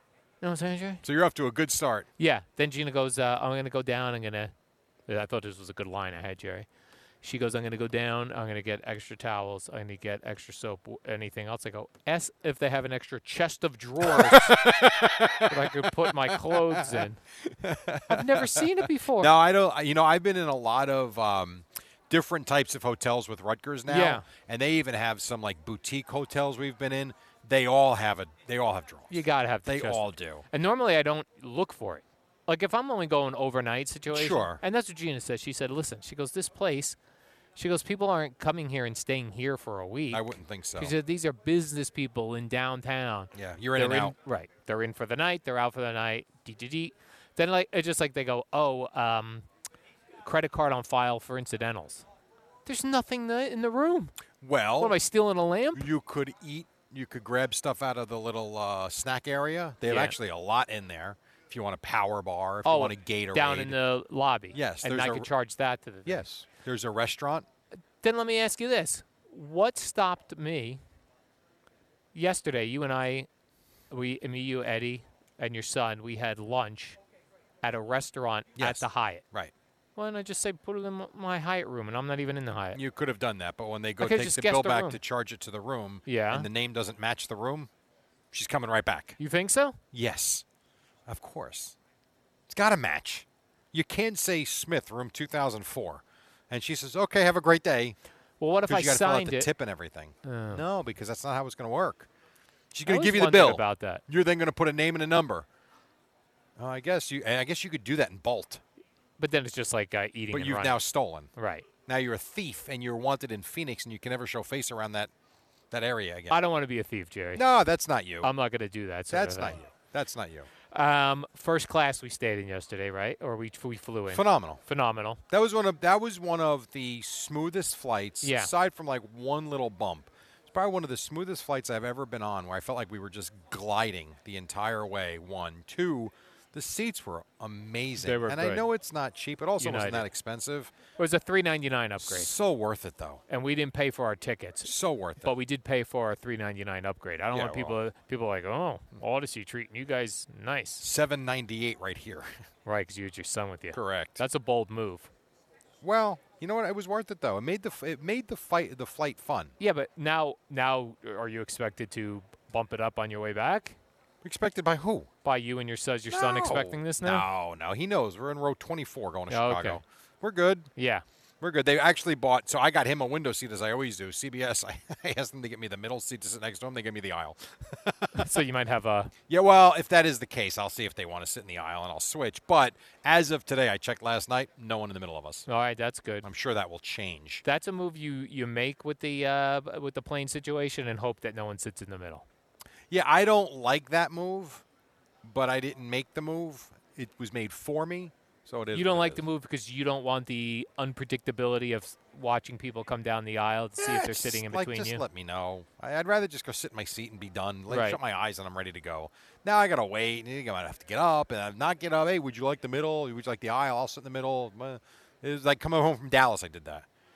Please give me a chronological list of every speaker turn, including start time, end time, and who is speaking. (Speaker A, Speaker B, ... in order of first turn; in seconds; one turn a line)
Speaker A: 0.4-1.0
Speaker B: 1.0-2.1
Speaker A: 2.2-4.5
Speaker A: 5.1-6.7
Speaker A: 7.2-14.6
Speaker B: 14.1-15.5
Speaker A: 15.4-17.2
Speaker B: 16.3-18.6
Speaker A: 18.1-19.3
Speaker B: 19.2-30.4
Speaker A: 23.9-24.2
Speaker A: 29.1-37.0
Speaker B: 34.1-34.6
Speaker A: 37.5-49.5
Speaker B: 40.1-40.9
Speaker B: 43.3-44.1
Speaker A: 50.2-52.0
Speaker A: 52.6-54.1
Speaker B: 54.4-55.0
Speaker A: 54.8-55.9
Speaker B: 55.8-63.8
Speaker A: 59.8-60.1
Speaker A: 62.6-66.2
Speaker B: 64.5-65.3
Speaker B: 66.0-67.5
Speaker A: 68.0-70.8
Speaker A: 72.1-73.3
Speaker A: 73.9-77.0
Speaker A: 77.6-79.2
Speaker B: 78.6-79.5
Speaker A: 80.0-82.8
Speaker B: 82.7-87.7
Speaker A: 84.0-85.0
Speaker A: 86.0-86.5
Speaker B: 88.3-89.2
Speaker A: 89.2-89.8
Speaker B: 89.9-90.4
Speaker B: 91.1-91.7
Speaker B: 92.5-98.0
Speaker A: 98.4-99.5
Speaker B: 98.7-102.1
Speaker A: 100.2-100.6
Speaker B: 102.7-105.5
Speaker A: 102.8-104.0
Speaker B: 106.6-108.6
Speaker A: 109.2-110.8
Speaker B: 110.3-111.3
Speaker A: 111.3-111.7
Speaker B: 111.8-115.1
Speaker B: 115.7-116.4
Speaker A: 116.3-117.4
Speaker B: 117.3-118.3
Speaker A: 118.2-119.6
Speaker B: 119.1-120.5
Speaker A: 120.7-125.2
Speaker B: 124.1-124.6
Speaker B: 125.3-140.7
Speaker A: 128.2-128.5
Speaker A: 138.0-138.7
Speaker A: 139.6-140.1
Speaker A: 141.0-142.3
Speaker B: 142.0-143.2
Speaker A: 143.3-150.8
Speaker B: 144.6-145.3
Speaker B: 147.3-147.8
Speaker B: 150.8-152.3
Speaker A: 152.6-155.1
Speaker B: 153.7-154.2
Speaker B: 155.8-159.5
Speaker A: 159.6-163.8
Speaker B: 164.2-165.1
Speaker A: 165.2-167.2
Speaker B: 166.1-170.7
Speaker A: 169.3-169.8
Speaker A: 170.8-171.0
Speaker B: 171.4-178.2
Speaker A: 178.1-179.1
Speaker B: 179.3-185.4
Speaker A: 185.5-186.2
Speaker B: 186.2-187.4
Speaker A: 187.4-192.2
Speaker B: 192.9-194.6
Speaker B: 195.2-199.2
Speaker A: 198.7-205.0
Speaker B: 203.8-216.8
Speaker A: 207.7-208.0